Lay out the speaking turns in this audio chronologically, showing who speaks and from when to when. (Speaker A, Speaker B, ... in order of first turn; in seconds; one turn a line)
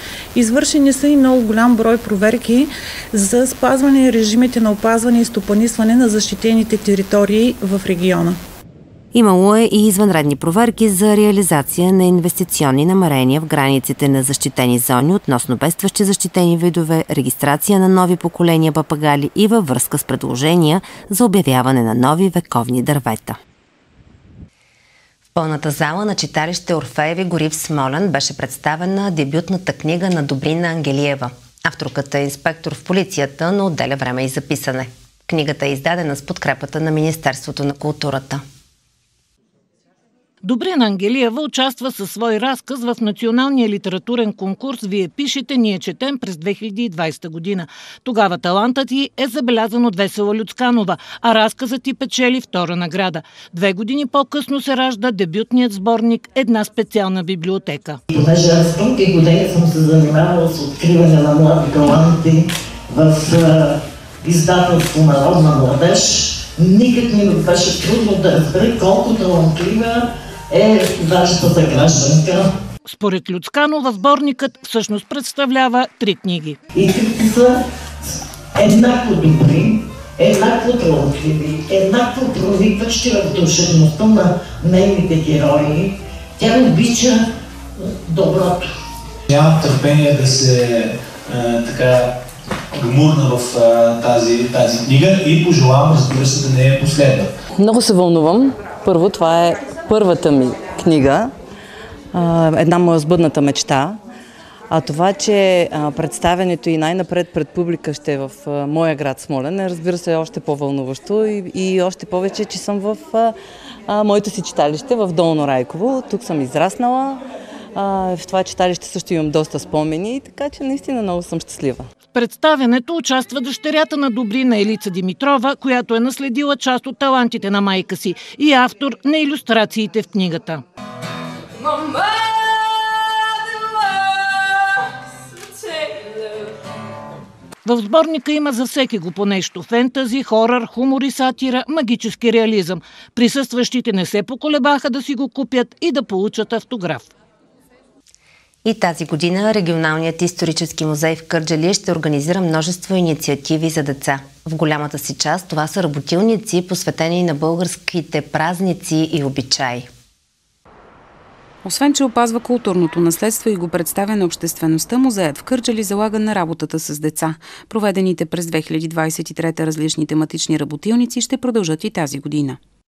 Speaker A: 0.3-8.4
Speaker B: 9.1-23.4
Speaker B: 25.4-38.4
Speaker C: 40.4-58.0
Speaker D: 58.1-72.5
Speaker C: 72.9-76.6
Speaker D: 76.7-88.7
Speaker E: 89.3-92.2
Speaker E: 92.8-97.3
Speaker F: 97.6-98.4
Speaker F: 100.0-101.2
Speaker F: 102.4-104.0
Speaker F: 104.8-113.0
Speaker F: 114.0-117.2
Speaker F: 118.0-121.8
Speaker C: 122.1-130.6
Speaker C: 137.6-147.1
Speaker B: 148.6-159.9
Speaker G: 161.6-172.6